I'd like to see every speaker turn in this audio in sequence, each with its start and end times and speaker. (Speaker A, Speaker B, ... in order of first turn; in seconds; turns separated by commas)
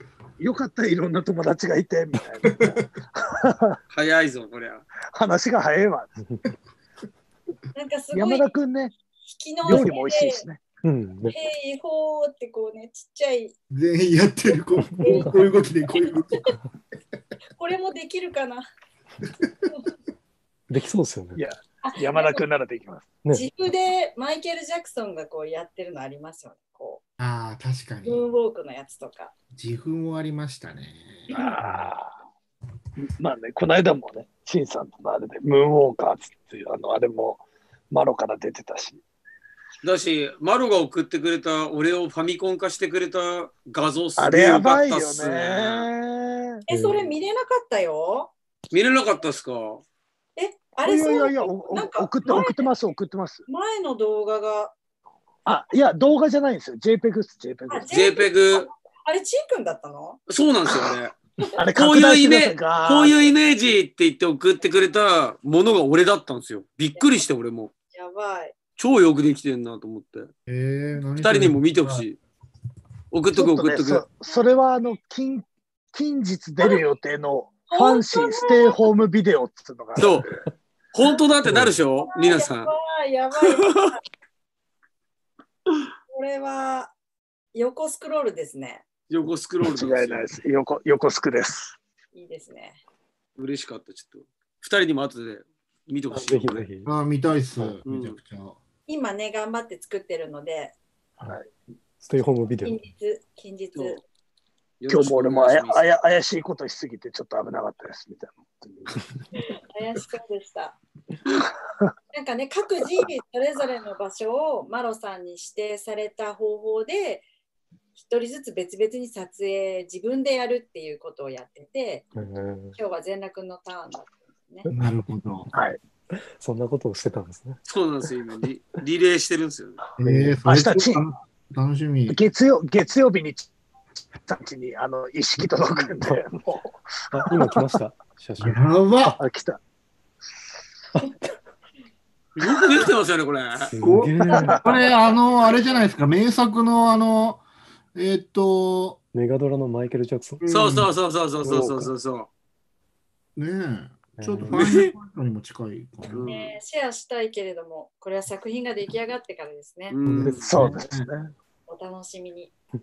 Speaker A: 0.4-3.8, Speaker B: 2.4-2.8, Speaker C: 3.9-4.8, Speaker A: 5.1-6.2, Speaker D: 7.7-8.5, Speaker A: 8.1-8.9, Speaker D: 9.2-10.4, Speaker A: 9.7-10.6, Speaker E: 10.8-11.3, Speaker D: 11.3-13.5, Speaker B: 13.7-16.6, Speaker D: 14.9-16.5, Speaker E: 15.0-15.3, Speaker D: 17.6-18.6, Speaker E: 20.7-21.4, Speaker A: 21.4-23.1, Speaker D: 21.8-22.4, Speaker D: 23.3-27.0, Speaker B: 27.2-28.2, Speaker D: 28.0-29.3, Speaker B: 29.5-31.8, Speaker A: 31.3-32.1, Speaker A: 33.0-39.0, Speaker C: 39.8-45.9, Speaker A: 44.2-46.6, Speaker D: 46.7-48.3, Speaker E: 46.7-47.1, Speaker C: 48.7-49.8, Speaker D: 50.4-52.7, Speaker A: 50.8-53.4, Speaker D: 53.5-54.7, Speaker A: 55.5-58.0, Speaker D: 57.7-60.2, Speaker C: 57.9-58.7, Speaker C: 60.3-61.2, Speaker A: 61.6-63.3, Speaker C: 61.8-67.7, Speaker D: 67.0-67.2, Speaker D: 67.9-68.5, Speaker C: 68.8-70.3, Speaker B: 70.5-72.0, Speaker C: 71.2-72.2, Speaker C: 73.1-74.0, Speaker A: 73.3-80.4, Speaker D: 77.7-78.8, Speaker C: 80.0-80.3, Speaker C: 80.9-82.7, Speaker E: 81.5-81.8, Speaker D: 82.1-84.0, Speaker C: 83.4-83.9, Speaker D: 86.1-86.9, Speaker D: 87.5-88.8, Speaker C: 89.1-90.2, Speaker A: 89.6-91.8, Speaker D: 92.1-92.8, Speaker C: 93.4-96.6, Speaker E: 96.1-96.9, Speaker B: 96.8-98.6, Speaker C: 97.8-98.2, Speaker D: 98.9-100.8, Speaker E: 102.0-102.8, Speaker D: 102.6-104.0, Speaker C: 104.8-105.9, Speaker A: 104.9-109.2, Speaker D: 109.3-110.8, Speaker D: 112.1-117.2, Speaker D: 117.9-122.1, Speaker E: 122.1-122.8, Speaker D: 122.7-124.7, Speaker B: 124.7-125.5, Speaker A: 125.5-125.8, Speaker E: 126.1-127.6, Speaker C: 127.7-129.8, Speaker B: 130.0-132.2, Speaker E: 130.0-130.4, Speaker A: 130.4-131.1, Speaker A: 132.1-133.5, Speaker A: 134.2-137.8, Speaker E: 135.6-136.2, Speaker E: 137.1-138.6, Speaker B: 138.4-139.2, Speaker A: 139.2-139.6, Speaker E: 140.9-141.4, Speaker C: 142.3-143.7, Speaker E: 143.6-144.6, Speaker B: 143.8-147.4, Speaker A: 144.3-144.6, Speaker B: 147.9-149.0, Speaker E: 149.1-150.4, Speaker B: 150.4-150.9, Speaker C: 150.5-152.3, Speaker E: 151.4-151.9, Speaker B: 153.3-156.3, Speaker E: 154.2-154.6, Speaker C: 154.5-154.9, Speaker C: 156.1-156.6, Speaker D: 156.2-159.9, Speaker C: 159.9-160.5, Speaker B: 160.1-161.1, Speaker E: 160.1-160.8, Speaker A: 160.4-161.3, Speaker D: 161.7-162.5